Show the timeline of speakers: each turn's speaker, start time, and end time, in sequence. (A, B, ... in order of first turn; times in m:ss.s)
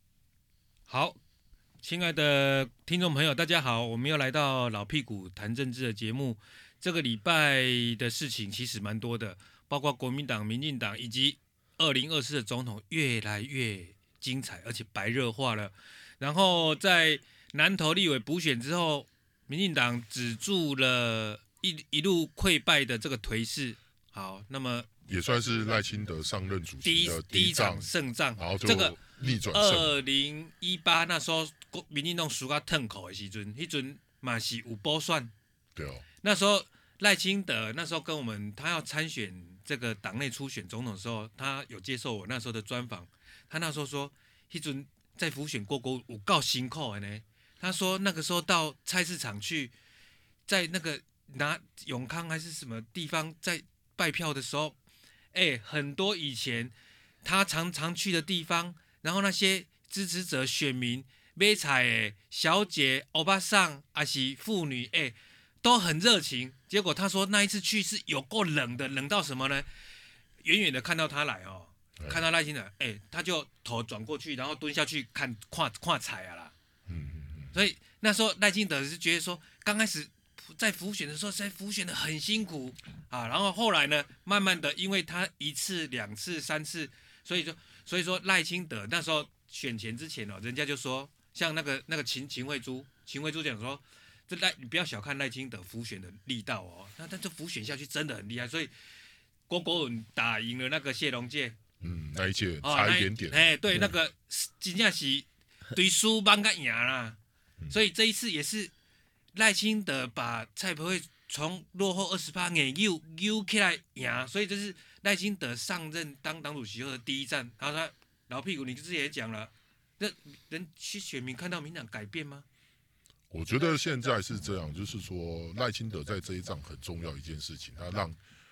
0:00.9-0:01.2 A
0:01.8-0:24.9 A
0:25.1-0:29.9 B
0:26.8-0:35.3 A
0:35.7-0:36.0 B
0:36.2-0:49.7 A
0:50.5-0:54.8 A
0:55.3-1:09.7 A
1:10.4-1:16.5 A
1:16.9-1:17.5 B
1:17.5-1:38.7 A
1:39.5-1:41.6 A
1:41.8-1:43.4 B
1:42.6-1:47.2 A
1:47.7-1:48.7 A
1:49.3-2:02.4 A
2:03.3-2:08.2 B